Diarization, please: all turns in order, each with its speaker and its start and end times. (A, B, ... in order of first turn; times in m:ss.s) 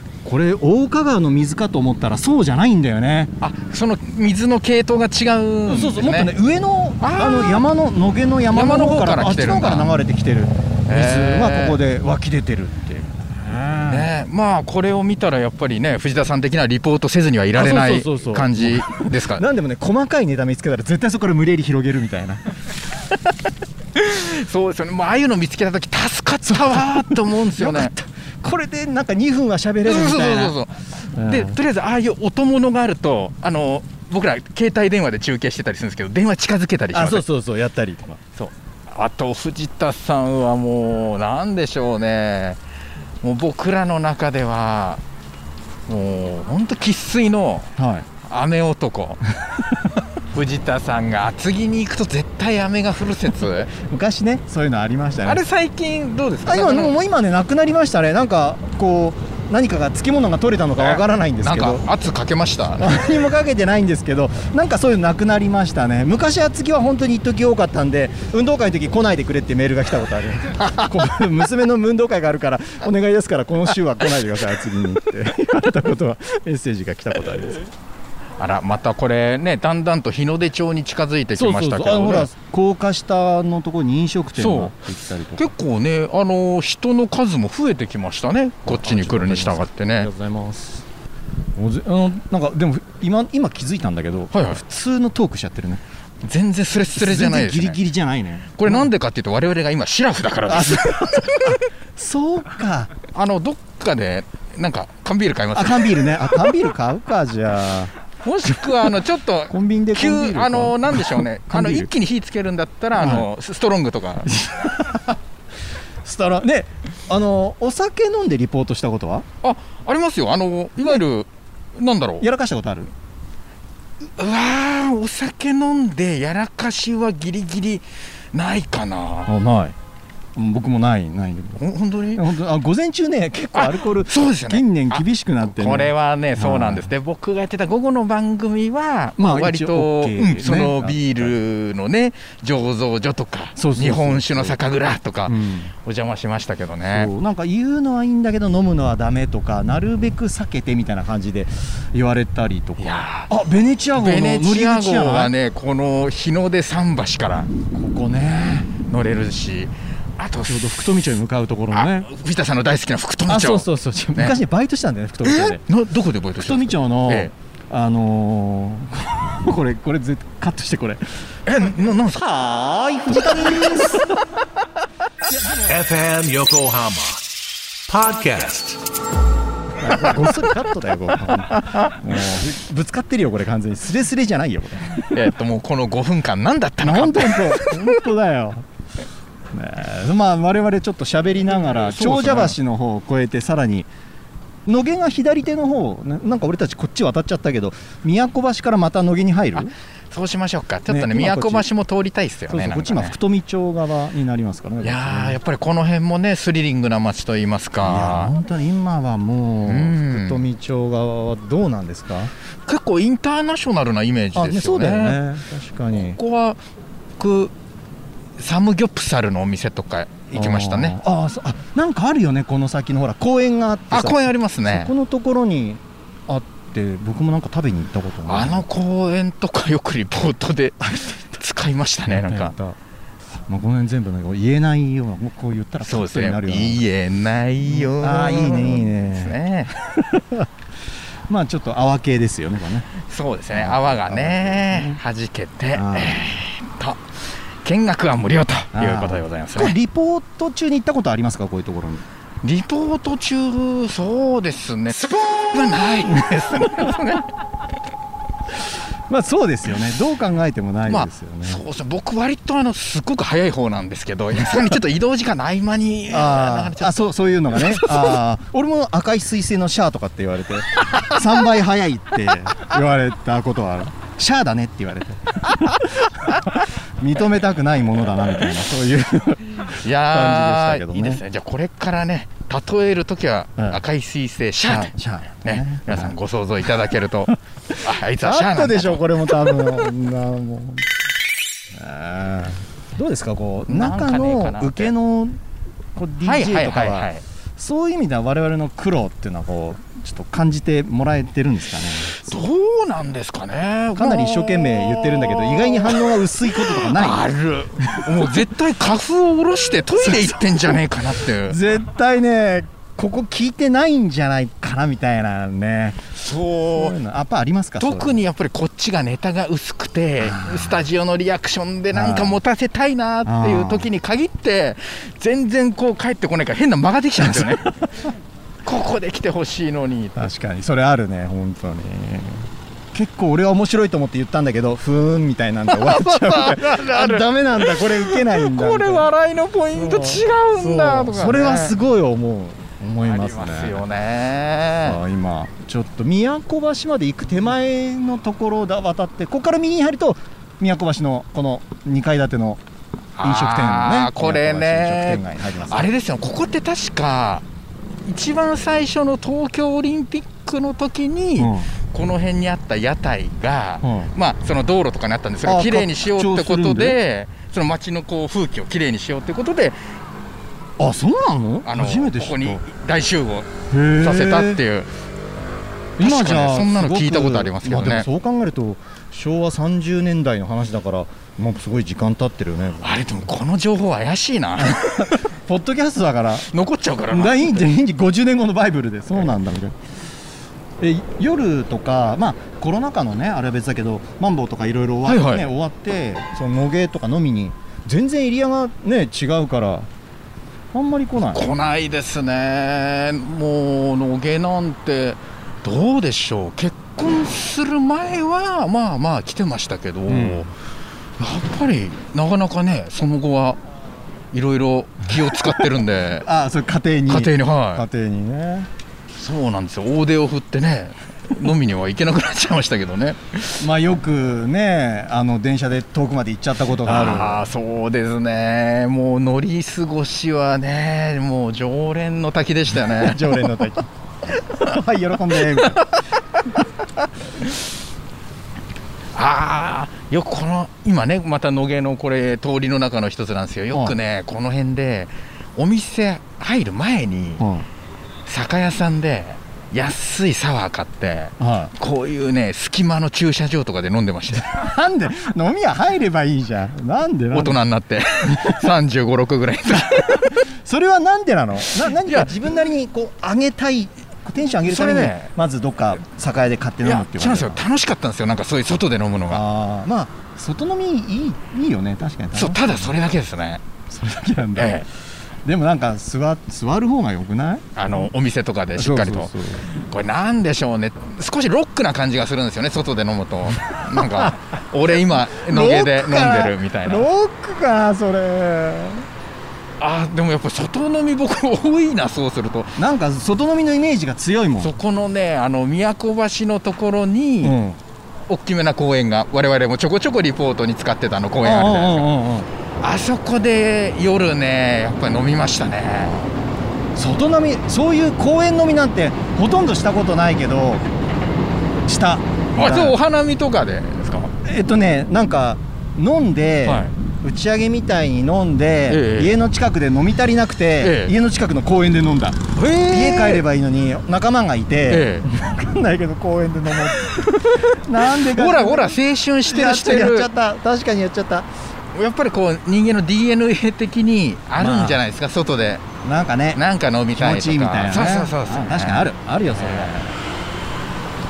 0:00.2-0:03.3 A
0:03.4-0:06.3 B
0:05.7-0:14.1 A
0:07.0-0:07.6 B
0:08.5-0:09.9 B
0:10.9-0:11.8 B
0:13.9-0:19.4 B
0:17.5-0:22.4 A
0:24.0-0:27.9 B
0:26.4-0:30.6 A
0:29.8-0:37.2 B
0:31.2-0:31.6 A
0:36.9-0:38.2 A
0:38.4-0:42.6 B
0:43.2-0:45.0 B
0:45.9-0:49.2 B
0:47.8-0:48.1 A
0:50.3-0:53.7 B
0:53.7-0:55.4 A
0:55.2-0:57.0 B
0:56.5-1:01.9 A
1:00.8-1:03.0 B
1:02.8-1:17.7 A
1:10.6-1:10.9 B
1:18.4-1:22.3 B
1:21.3-1:25.5 A
1:24.4-1:24.7 B
1:25.4-1:30.1 B
1:28.6-1:30.9 A
1:31.6-1:35.8 A
1:34.3-1:34.6 B
1:36.2-1:37.8 B
1:36.9-1:38.9 A
1:38.6-1:41.6 B
1:40.5-1:42.9 A
1:43.1-1:46.4 B
1:45.5-1:47.9 A
1:48.2-1:54.3 B
1:49.5-1:51.9 A
1:53.0-1:53.3 A
1:54.3-1:55.2 A
1:56.0-1:59.3 A
1:59.4-2:02.3 B
2:02.2-2:02.9 A
2:04.2-2:09.3 B
2:09.3-2:09.8 A
2:10.4-2:16.9 A
2:11.6-2:12.3 B
2:13.6-2:27.1 B
2:19.2-2:21.4 A
2:23.6-2:24.6 A
2:25.3-2:25.7 A
2:26.9-2:35.3 A
2:32.8-2:33.3 B
2:34.0-2:37.5 B
2:37.7-2:38.7 A
2:38.8-2:40.9 B
2:40.5-2:42.1 A
2:41.7-2:44.4 B
2:43.3-2:45.6 A
2:45.2-2:47.3 B
2:46.4-2:51.0 A
2:51.5-2:52.3 B
2:52.1-2:54.2 A
2:55.2-2:55.7 A
2:55.6-2:57.2 C
2:57.9-2:58.8 C
2:59.8-3:05.2 A
3:01.6-3:02.0 B
3:05.0-3:08.0 B
3:06.8-3:08.6 A
3:09.5-3:13.9 A
3:11.7-3:12.6 B
3:14.7-3:19.7 A
3:20.1-3:23.2 B
3:20.9-3:21.7 A
3:22.5-3:25.4 A
3:24.8-3:28.3 B
3:27.8-3:32.3 A
3:29.7-3:30.4 B
3:32.7-3:35.2 B
3:34.3-3:36.2 A
3:35.9-3:36.6 B
3:37.2-3:37.5 B
3:38.4-3:41.0 B
3:40.3-3:48.6 A
3:43.9-3:44.9 B
3:48.3-3:52.6 B
3:50.9-3:51.2 A
3:52.1-3:52.8 A
3:53.5-3:56.8 A
3:55.8-3:59.7 B
3:57.6-4:00.5 A
4:01.3-4:02.9 A
4:03.0-4:07.0 B
4:03.5-4:05.0 A
4:05.8-4:06.3 A
4:07.6-4:09.8 B
4:08.7-4:12.0 A
4:12.4-4:17.3 B
4:19.1-4:21.6 A
4:20.9-4:28.2 B
4:26.1-4:41.2 A
4:39.7-4:44.9 B
4:44.6-4:46.2 A
4:45.4-4:49.7 B
4:47.7-4:50.9 A
4:51.7-4:55.4 A
4:53.7-4:54.9 B
4:56.0-5:02.4 A
4:56.2-4:57.2 B
5:02.2-5:11.6 B
5:04.0-5:07.3 A
5:07.8-5:08.4 A
5:10.0-5:10.8 A
5:11.4-5:16.1 A
5:16.2-5:17.0 B
5:16.7-5:18.2 A
5:17.8-5:27.7 B
5:20.2-5:20.8 A
5:21.9-5:22.4 A
5:23.2-5:23.9 A
5:27.2-5:27.8 A
5:28.6-5:30.2 B
5:30.2-5:39.1 A
5:35.7-5:41.8 B
5:39.7-5:43.8 A
5:43.0-5:45.0 B
5:44.8-5:52.6 A
5:53.2-5:57.4 B
5:53.2-5:55.9 A
5:58.0-6:09.8 B
6:01.4-6:01.7 A
6:03.8-6:04.1 A
6:05.4-6:07.0 A
6:10.8-6:12.6 A
6:11.6-6:14.9 B
6:13.7-6:14.6 A
6:16.0-6:23.1 A
6:16.0-6:18.1 B
6:22.8-6:25.3 B
6:24.6-6:26.5 A
6:26.5-6:27.6 B
6:27.1-6:29.8 A
6:30.8-6:39.9 A
6:35.0-6:35.5 B
6:40.7-6:41.5 A
6:41.3-6:50.5 B
6:50.1-6:50.5 A
6:51.2-6:53.6 B
6:54.3-6:56.3 B
6:55.2-6:58.7 A
6:57.1-6:57.9 B
6:59.2-7:03.6 B
7:03.6-7:07.4 A
7:06.8-7:13.6 B
7:12.8-7:15.8 A
7:15.3-7:16.0 B
7:19.1-7:27.5 B
7:27.4-7:27.7 A
7:28.3-7:34.5 B
7:31.4-7:31.7 A
7:34.3-7:37.6 A
7:37.3-7:40.5 B
7:38.2-7:38.7 A
7:39.7-7:47.6 A
7:41.8-7:42.3 B
7:44.6-7:45.3 B
7:46.8-7:49.4 B
7:49.3-7:52.9 A
7:52.4-7:53.6 B
7:53.9-7:54.8 A
7:54.6-7:54.9 B
7:55.4-7:58.1 A
7:57.8-8:07.1 B
7:58.8-7:59.7 A
8:03.9-8:04.4 A
8:04.9-8:09.1 A
8:09.8-8:12.8 B
8:12.8-8:14.7 A
8:14.6-8:17.6 B
8:17.4-8:17.8 A
8:18.3-8:22.1 B
8:21.4-8:22.5 A
8:22.8-8:26.2 B
8:27.0-8:30.8 A
8:31.8-8:33.0 A
8:32.6-8:34.3 B
8:34.4-8:51.5 A
8:36.6-8:36.9 B
8:38.9-8:39.4 B
8:40.8-8:41.1 B
8:42.6-8:43.4 B
8:44.9-8:45.3 B
8:47.3-8:50.3 B
8:51.9-8:55.9 B
8:54.6-8:55.0 A
8:56.0-8:56.6 A
8:56.5-8:59.9 B
8:57.2-9:00.2 A